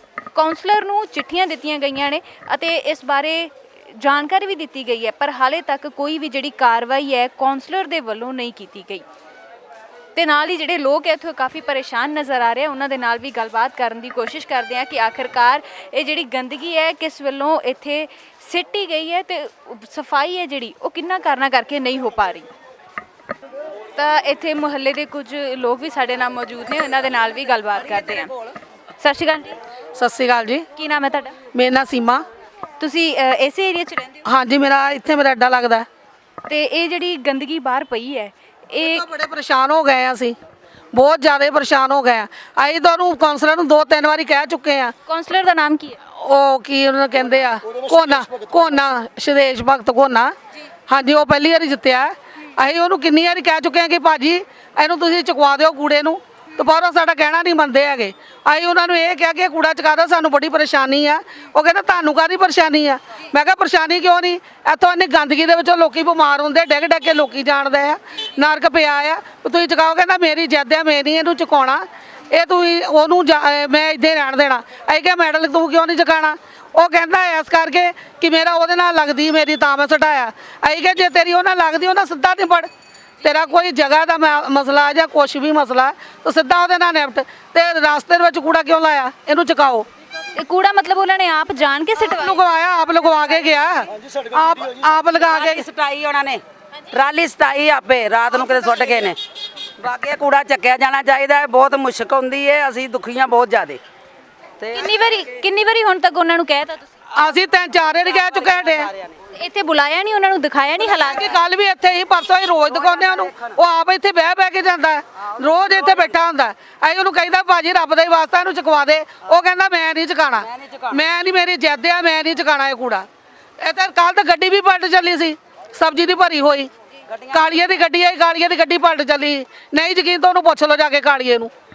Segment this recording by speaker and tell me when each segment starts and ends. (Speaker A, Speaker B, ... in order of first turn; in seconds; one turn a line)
Speaker A: 0.3-9.1
Speaker A: 10.2-22.5
Speaker A: 24.0-28.3
Speaker A: 29.0-29.6
Speaker B: 29.9-30.7
Speaker A: 30.8-31.4
Speaker B: 31.5-32.2
Speaker A: 32.8-34.2
Speaker B: 34.2-35.9
Speaker A: 36.5-39.0
Speaker B: 38.8-40.4
Speaker B: 40.9-44.9
Speaker A: 45.1-46.0
Speaker B: 46.1-50.3
Speaker B: 50.9-82.7
Speaker B: 83.2-89.8
Speaker A: 90.3-92.4
Speaker B: 92.0-95.7
Speaker C: 95.3-99.2
Speaker C: 99.8-103.8
Speaker C: 104.6-104.9
Speaker A: 104.7-106.9
Speaker B: 107.2-108.9
Speaker C: 108.1-109.2
Speaker A: 109.3-111.3
Speaker B: 111.0-123.1
Speaker C: 112.7-113.5
Speaker C: 115.7-116.1
Speaker C: 120.4-121.0
Speaker B: 123.6-126.7
Speaker C: 127.1-127.6
Speaker B: 127.3-131.5